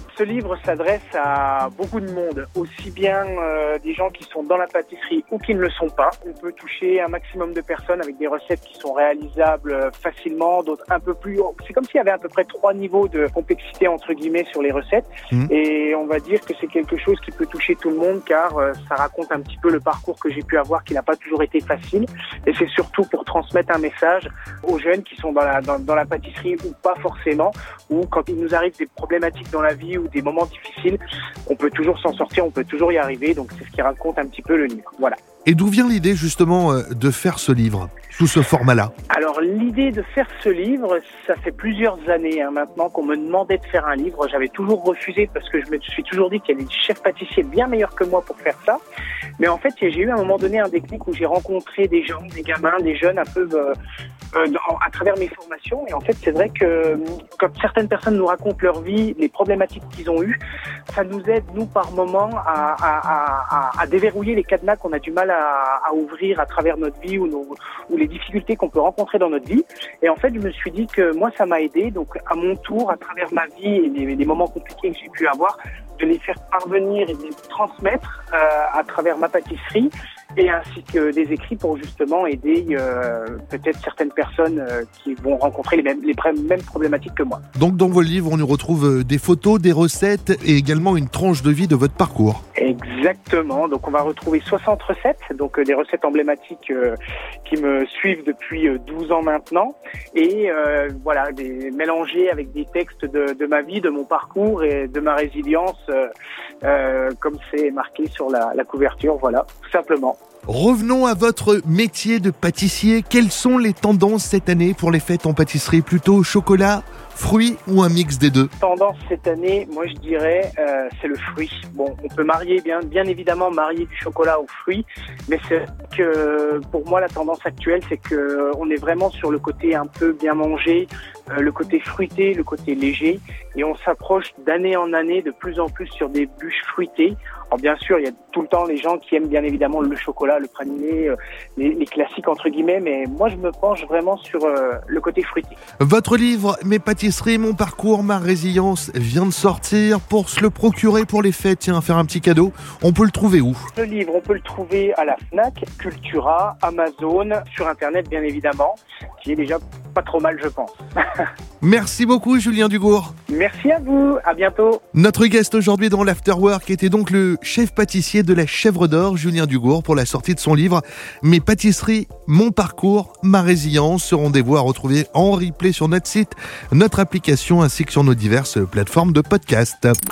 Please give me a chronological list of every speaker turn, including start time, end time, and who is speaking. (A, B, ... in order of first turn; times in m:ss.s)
0:00.1-0:35.2 A
0:35.4-0:38.9 B
0:39.1-0:48.8 A
0:49.4-0:53.7 A
0:54.3-1:00.4 A
1:00.9-1:27.4 A
1:27.6-1:32.4 B
1:32.6-1:46.1 A
1:46.6-1:50.2 A
1:50.5-1:58.5 B
1:58.6-2:25.6 A
2:25.8-2:33.7 B
2:33.7-2:41.3 A
2:41.6-2:43.1 B
2:43.3-2:44.8 A
2:44.9-3:00.0 B